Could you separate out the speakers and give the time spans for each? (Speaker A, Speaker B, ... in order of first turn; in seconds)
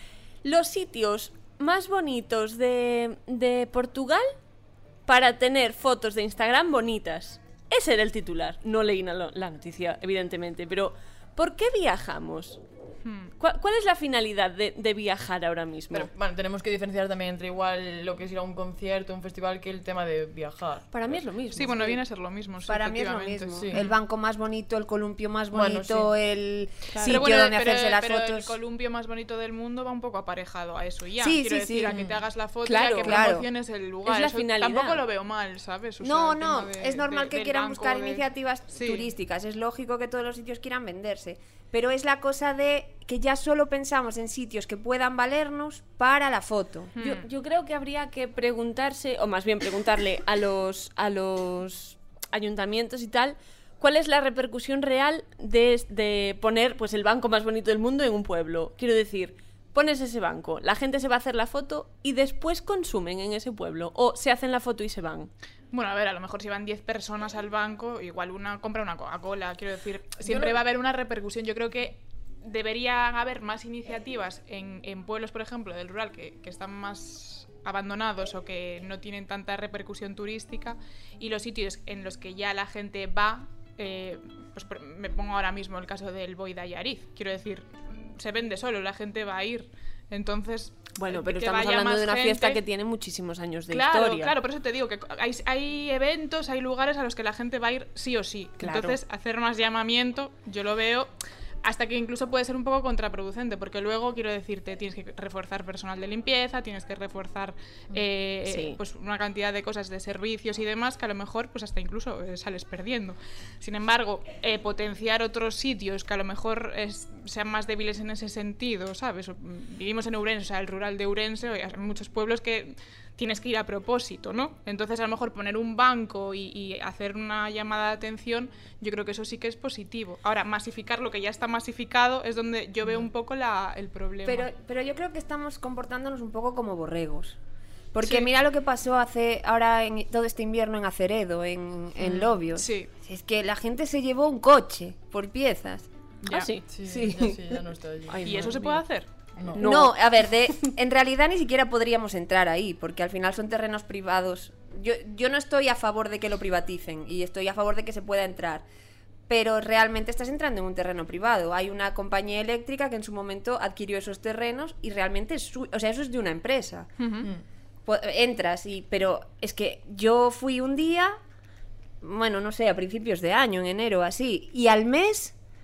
Speaker A: 0.4-4.4, 5.0-12.6, 13.4-16.1, 20.9-22.0, 26.9-27.3, 32.6-33.2, 34.0-35.0, 47.0-65.3, 91.0-94.3, 98.6-99.0, 108.5-108.8, 146.3-146.6, 148.1-148.8, 149.5-149.9
Speaker B: 13.0-13.3, 21.5-24.0, 26.9-39.1, 46.9-47.3, 65.7-92.6, 93.7-101.1, 101.6-134.5, 142.0-142.9, 146.2-146.5, 148.2-149.1, 167.0-167.3
Speaker C: 15.9-21.2, 23.6-23.8, 25.5-26.1, 31.9-32.1, 70.2-70.6, 146.7-148.7, 149.3-149.6
Speaker D: 22.6-28.5, 31.2-32.0, 33.0-33.5, 36.0-46.9, 134.2-137.4, 137.9-145.9, 146.8-147.4, 149.5-158.6, 159.3-166.9, 167.8-171.2, 172.0-175.3